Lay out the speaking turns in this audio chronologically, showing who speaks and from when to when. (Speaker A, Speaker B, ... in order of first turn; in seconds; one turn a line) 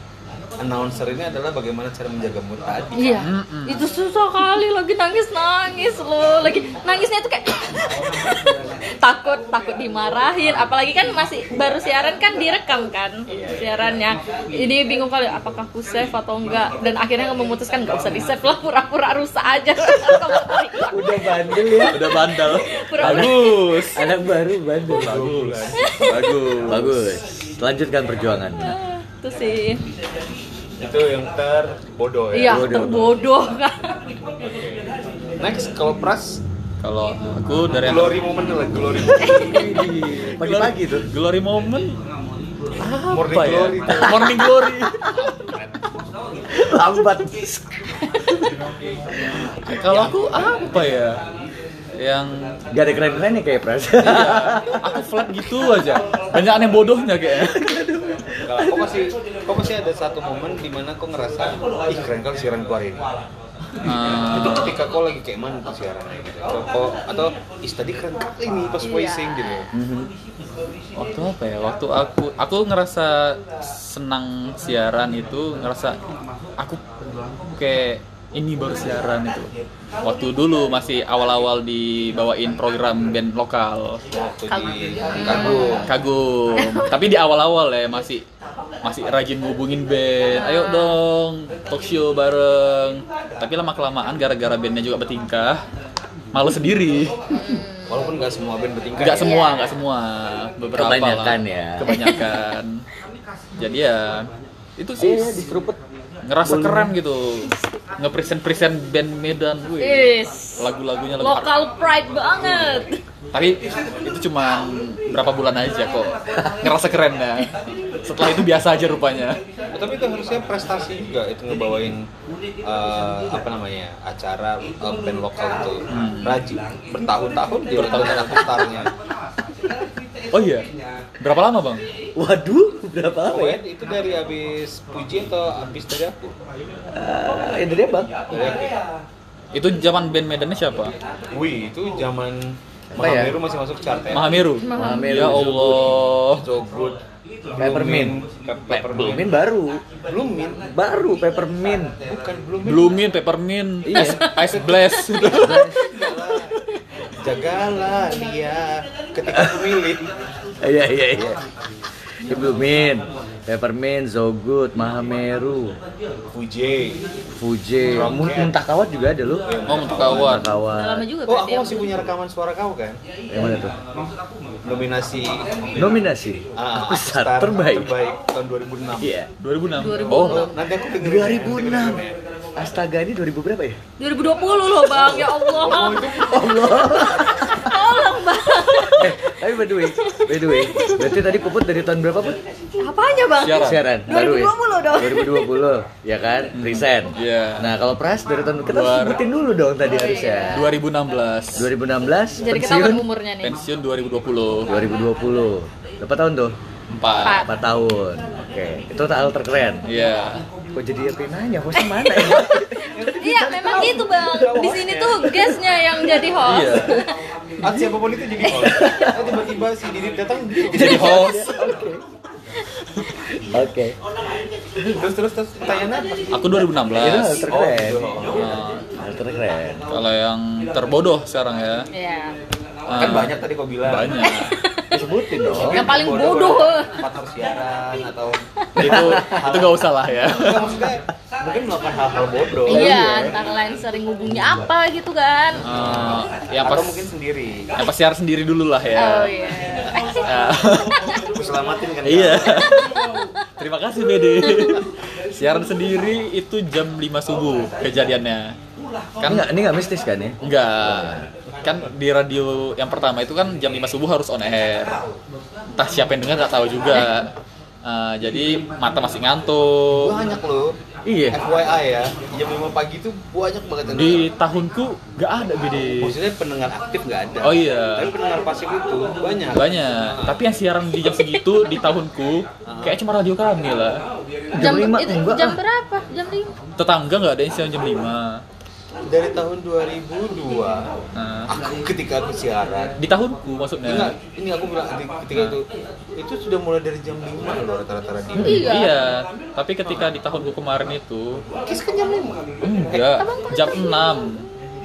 Speaker A: 0.6-3.2
Speaker B: 2.9-23.5
Speaker C: 3.2-3.9
Speaker D: 20.9-22.1
Speaker C: 21.9-24.0
Speaker D: 22.9-25.2
Speaker C: 24.9-27.2
Speaker A: 24.9-25.9
Speaker B: 25.8-26.3
Speaker D: 26.6-28.8
Speaker B: 28.6-29.8
Speaker A: 30.8-32.9
Speaker B: 32.3-33.9
Speaker D: 32.5-33.1
Speaker A: 34.5-34.8
Speaker A: 35.4-36.4
Speaker C: 36.8-38.2
Speaker A: 37.8-39.7
Speaker B: 39.2-39.6
Speaker D: 39.3-41.0
Speaker C: 40.0-41.9
Speaker C: 42.8-45.1
Speaker A: 43.1-44.4
Speaker D: 44.0-44.3
Speaker A: 45.1-45.6
Speaker D: 46.5-47.6
Speaker C: 49.6-51.2
Speaker A: 49.7-50.9
Speaker C: 52.0-52.6
Speaker D: 52.7-54.8
Speaker C: 54.0-57.8
Speaker D: 57.5-58.9
Speaker A: 58.5-63.0
Speaker C: 63.8-64.7
Speaker A: 64.0-69.7
Speaker B: 68.8-69.6
Speaker D: 69.7-70.1
Speaker C: 71.0-76.0
Speaker C: 77.5-79.5
Speaker C: 80.0-84.0
Speaker A: 84.1-85.9
Speaker B: 84.5-85.9
Speaker C: 85.8-88.2
Speaker B: 86.6-86.9
Speaker C: 88.8-95.6
Speaker B: 90.3-91.0
Speaker C: 96.3-97.1
Speaker B: 97.3-98.1
Speaker A: 97.9-99.4
Speaker C: 99.0-102.8
Speaker B: 99.2-99.8
Speaker D: 100.8-101.9
Speaker B: 101.9-102.2
Speaker C: 103.6-105.4
Speaker D: 105.0-105.8
Speaker C: 106.2-111.6
Speaker D: 106.4-106.9
Speaker B: 109.8-110.7
Speaker B: 111.2-113.0
Speaker C: 113.3-117.5
Speaker C: 118.0-119.4
Speaker A: 119.7-122.1
Speaker A: 122.6-128.9
Speaker C: 125.9-126.4
Speaker C: 127.7-128.6
Speaker C: 130.3-130.7
Speaker C: 131.2-131.8
Speaker D: 132.2-133.6
Speaker A: 133.3-136.3
Speaker D: 136.9-138.1
Speaker A: 138.3-138.7
Speaker C: 139.5-140.9
Speaker A: 141.3-144.4
Speaker D: 142.9-143.4
Speaker C: 144.1-146.5
Speaker B: 144.6-145.3
Speaker D: 144.7-146.0
Speaker A: 146.3-147.0
Speaker A: 147.5-149.3
Speaker D: 147.6-148.2
Speaker D: 148.7-149.8
Speaker A: 150.1-150.7
Speaker D: 150.7-151.9
Speaker A: 152.0-153.0
Speaker C: 152.6-155.7
Speaker D: 153.8-154.2
Speaker B: 153.9-154.4
Speaker A: 154.3-156.6
Speaker D: 155.3-155.8
Speaker A: 157.2-160.0
Speaker D: 159.3-159.6
Speaker D: 160.6-161.4
Speaker D: 162.3-165.8
Speaker A: 166.3-167.0
Speaker D: 167.4-169.4
Speaker A: 167.9-168.5
Speaker A: 169.5-170.4
Speaker C: 169.7-170.5
Speaker D: 170.0-171.0
Speaker B: 170.7-171.9
Speaker A: 171.3-173.0
Speaker D: 173.3-173.7
Speaker A: 174.6-175.8
Speaker D: 175.8-177.9
Speaker A: 176.6-179.1
Speaker D: 179.0-179.3
Speaker C: 179.4-180.5
Speaker B: 179.7-180.6
Speaker A: 180.1-182.1
Speaker D: 181.0-182.0
Speaker D: 182.6-183.8
Speaker B: 184.0-189.2
Speaker A: 185.1-187.0
Speaker D: 186.2-187.7
Speaker D: 188.9-192.4
Speaker B: 189.9-191.0
Speaker B: 192.8-195.6
Speaker C: 193.4-193.9
Speaker D: 193.6-200.7
Speaker C: 196.5-197.7
Speaker C: 198.7-199.2
Speaker B: 199.8-200.7
Speaker C: 200.5-201.7
Speaker D: 201.6-203.0
Speaker B: 202.4-203.6
Speaker C: 203.4-204.7
Speaker D: 204.7-206.5
Speaker C: 206.9-207.4
Speaker B: 207.2-207.5
Speaker D: 207.2-209.8
Speaker C: 209.8-210.4
Speaker D: 210.7-214.6
Speaker B: 211.8-217.1
Speaker A: 212.9-215.3
Speaker C: 216.4-217.0
Speaker A: 217.6-221.3
Speaker B: 218.5-219.1
Speaker D: 218.5-219.3
Speaker D: 220.7-222.0
Speaker C: 220.7-221.8
Speaker D: 223.5-223.9
Speaker A: 224.8-228.6
Speaker C: 226.3-227.4
Speaker D: 227.0-228.1
Speaker C: 228.3-228.8
Speaker D: 229.0-230.0
Speaker C: 229.9-231.9
Speaker B: 231.9-232.3
Speaker C: 232.9-234.5
Speaker A: 232.9-234.3
Speaker B: 234.2-234.8
Speaker D: 234.9-235.9
Speaker B: 235.4-236.9
Speaker A: 235.5-243.1
Speaker C: 238.8-240.8
Speaker D: 238.9-239.4
Speaker D: 242.7-243.3
Speaker B: 242.7-245.6
Speaker C: 245.6-247.1
Speaker A: 245.6-247.7
Speaker C: 247.8-249.3
Speaker B: 248.9-250.2
Speaker C: 250.2-251.2
Speaker A: 251.3-252.9
Speaker C: 252.0-252.9
Speaker C: 253.6-258.5
Speaker B: 254.2-254.8
Speaker C: 259.2-259.5
Speaker D: 259.2-261.3
Speaker C: 260.4-265.0
Speaker C: 265.8-267.3
Speaker C: 267.8-270.1
Speaker A: 269.9-270.7
Speaker D: 271.1-271.4
Speaker A: 271.3-274.3
Speaker C: 273.9-276.1
Speaker A: 276.0-280.4
Speaker C: 277.4-278.1
Speaker C: 279.5-284.0
Speaker A: 282.7-283.0
Speaker D: 284.5-285.6
Speaker B: 284.6-286.5
Speaker C: 286.8-288.4
Speaker A: 289.1-290.9
Speaker C: 291.1-291.5
Speaker A: 291.5-292.9
Speaker C: 293.0-294.1
Speaker A: 293.8-295.6
Speaker A: 296.2-298.7
Speaker D: 298.4-298.7
Speaker B: 298.4-299.0
Speaker C: 298.6-301.4
Speaker A: 301.6-303.2
Speaker C: 302.6-304.4
Speaker B: 303.2-303.8